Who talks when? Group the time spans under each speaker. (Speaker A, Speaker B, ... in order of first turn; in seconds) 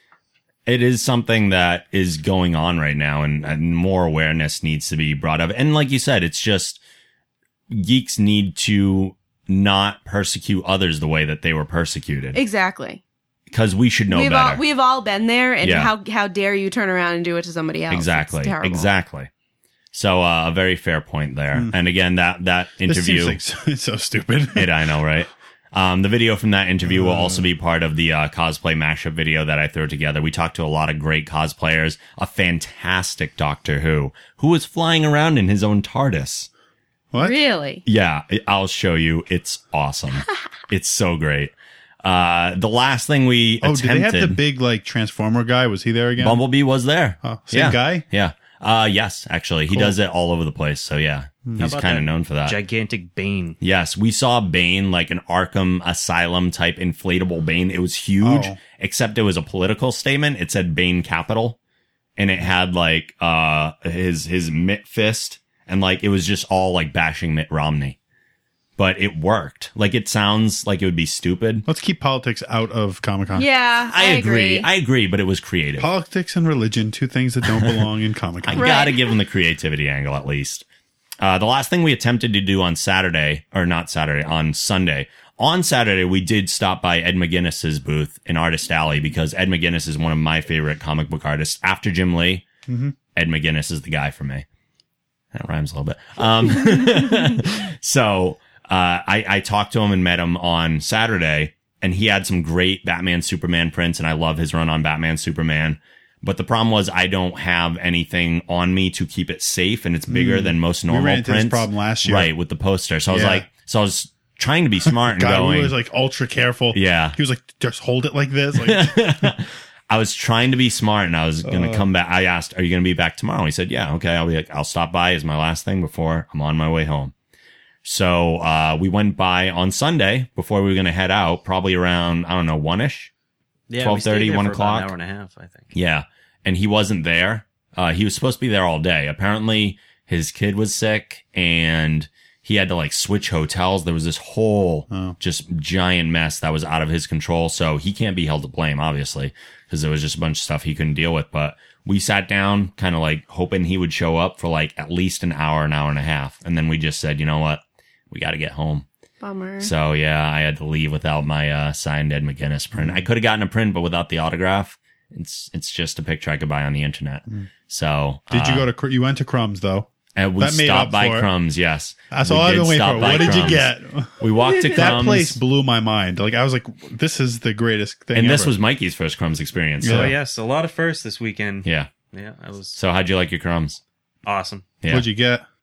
Speaker A: 0.7-6.8, 7.7-12.4, 13.5-14.6, 15.6-15.9, 17.9-19.3, 19.9-23.4, 24.6-36.5, 37.9-41.5, 42.0-44.4, 46.2-52.6, 53.6-61.6, 62.2-68.0, 68.8-71.7, 73.9-75.9, 77.5-77.8, 78.4-80.6, 81.2-92.5, 93.2-94.5, 95.3-115.8, 116.7-117.2, 118.6-127.1, 127.8-133.1, 133.8-134.9, 135.7-158.9, 159.6-168.7, 170.2-175.4, 178.1-180.2, 181.6-181.9, 182.8-183.8, 184.8-185.1
Speaker B: 12.3-13.0, 14.1-18.9, 37.2-37.8, 73.3-74.7, 78.5-79.1, 159.2-159.7, 174.5-174.9
Speaker C: 22.9-25.0, 26.9-27.5, 37.1-37.4, 43.6-46.4, 47.2-48.0, 49.7-50.0, 51.5-51.7, 58.2-58.6, 71.7-73.5, 75.8-78.8, 92.7-93.0, 110.1-112.3, 113.1-113.5, 114.8-119.3, 121.5-121.9, 144.9-145.2, 162.7-163.1, 168.3-171.3, 172.1-178.6, 179.8-180.2, 184.9-185.4
Speaker D: 51.6-53.6, 133.7-135.7, 179.8-182.8, 184.2-184.7